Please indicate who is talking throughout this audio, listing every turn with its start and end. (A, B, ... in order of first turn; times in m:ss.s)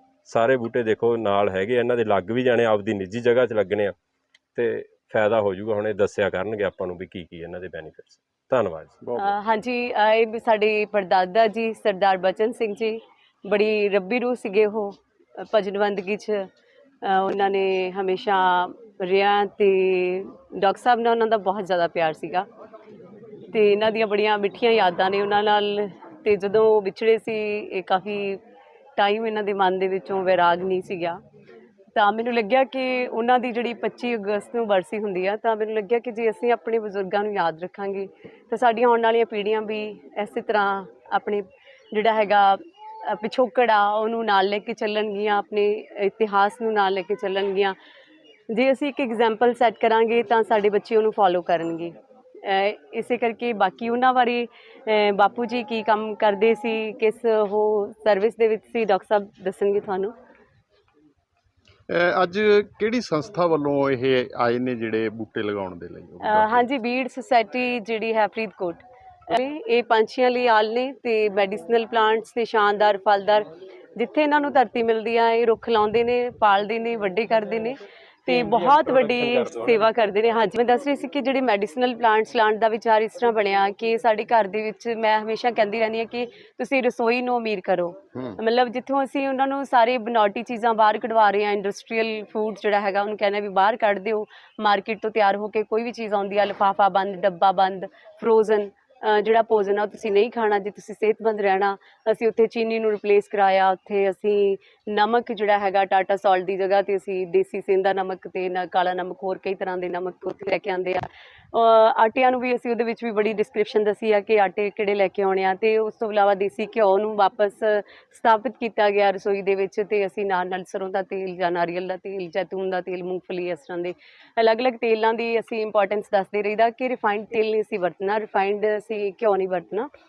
0:00.3-0:04.0 A
0:04.6-0:09.0 A
0:09.2-0:16.5 B
0:17.0-0:22.5 B
0:23.5-0:28.4 B
0:29.0-0:31.2 B
0:32.0-0:47.8 B
0:48.5-1:00.1 B
1:01.9-1:06.7 C
1:06.2-2:09.9 B
1:18.3-1:19.8 A
1:28.2-1:28.4 C